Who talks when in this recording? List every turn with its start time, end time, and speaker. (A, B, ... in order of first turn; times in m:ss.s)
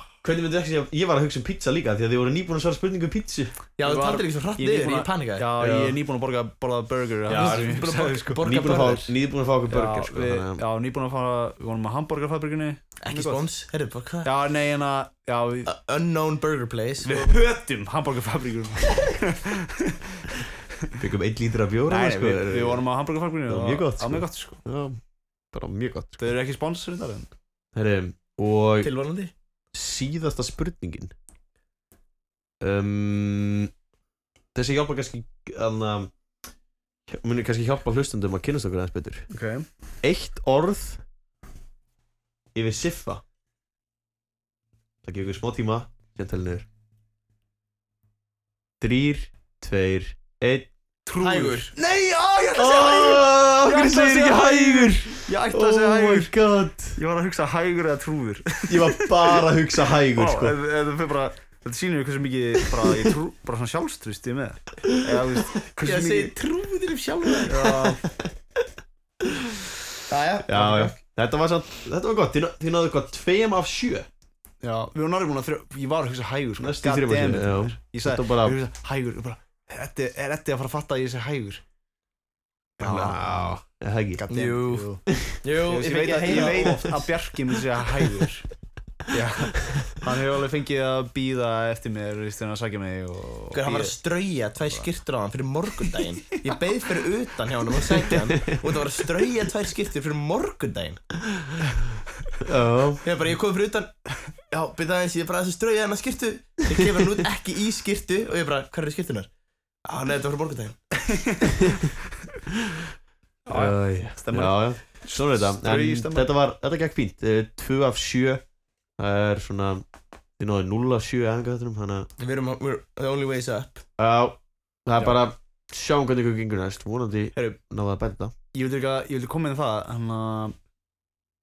0:00.2-0:03.6 A
0:03.8-0:05.5 B
0:03.8-0:08.5 C
0:05.6-0:06.0 A
0:07.3-0:07.7 A
0:07.3-0:09.1 B
0:08.4-0:10.6 A
0:09.7-0:13.4 C
0:13.0-0:14.3 B
0:14.2-0:15.7 C
0:15.7-0:17.3 B
0:17.0-0:20.3 C
0:21.0-0:22.8 A
0:21.9-0:24.6 C
0:23.5-0:25.0 A
0:25.5-0:26.3 A
0:26.2-0:27.3 C
0:27.7-0:28.9 A
0:28.8-0:29.3 B
0:29.7-0:31.1 A
0:32.6-0:33.7 A
0:34.6-0:36.1 A
0:37.1-0:39.3 A
0:39.3-0:39.7 C
0:40.0-0:41.0 A
0:42.5-0:43.2 A
0:45.0-0:46.7 A
0:48.8-0:50.7 A
0:51.1-0:56.3 C
0:51.2-0:51.7 B
0:52.6-0:57.0 A
0:57.0-0:59.4 C
0:58.7-1:00.6 A
1:00.1-1:06.3 C
1:05.8-1:07.8 B
1:07.4-1:08.0 C
1:09.2-1:09.7 A
1:10.1-1:11.0 B
1:10.5-1:14.1 A
1:14.6-1:21.6 C
1:16.6-1:18.6 A
1:22.8-1:23.6 C
1:22.8-1:24.2 A
1:24.2-1:28.5 C
1:24.3-1:24.9 B
1:25.1-1:25.4 A
1:25.4-1:27.0 B
1:26.4-1:26.9 A
1:29.1-1:34.0 C
1:33.5-1:41.1 B
1:38.2-1:38.6 A
1:42.4-1:43.0 A
1:43.0-1:43.9 B
1:44.5-1:49.3 B
1:49.9-1:50.8 B
1:51.1-1:51.5 C
1:53.5-1:56.3 C
1:53.5-1:58.4 A
1:59.0-1:59.8 A
2:00.4-2:02.1 A
2:02.2-2:03.8 B
2:04.0-2:08.3 A
2:08.5-2:10.6 C